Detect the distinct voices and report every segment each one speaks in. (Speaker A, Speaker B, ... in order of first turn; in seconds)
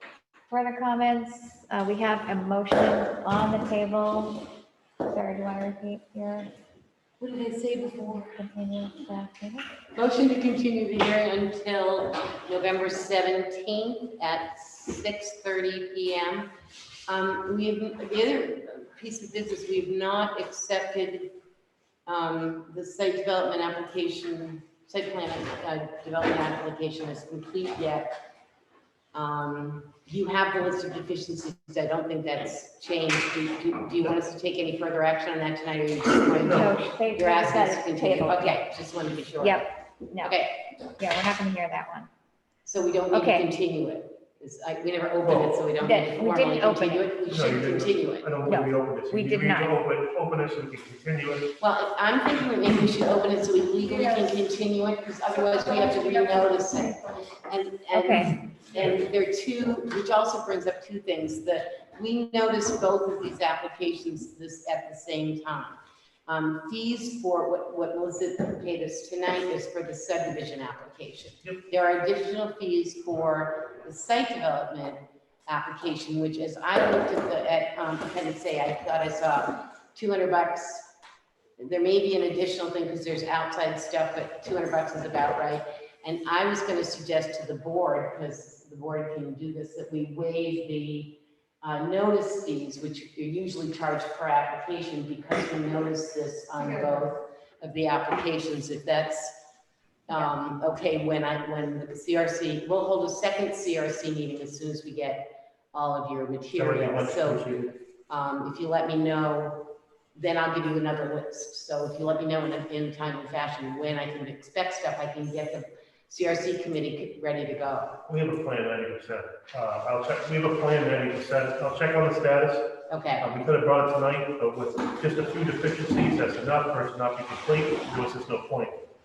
Speaker A: 0.5-4.5, 5.1-6.5, 8.2-9.7, 36.5-38.5, 39.4-40.4, 41.0-42.1, 43.1-43.5, 45.8-47.1, 48.5-49.8, 57.9-58.4
Speaker B: 7.2-8.4, 9.9-16.5, 17.1-21.4, 22.1-28.2, 29.1-40.6, 42.6-48.3, 51.6-80.9, 81.6-99.4, 100.1-118.0, 122.9-123.3
Speaker C: 45.2-45.5, 47.3-51.5, 106.5-107.7, 118.0-128.8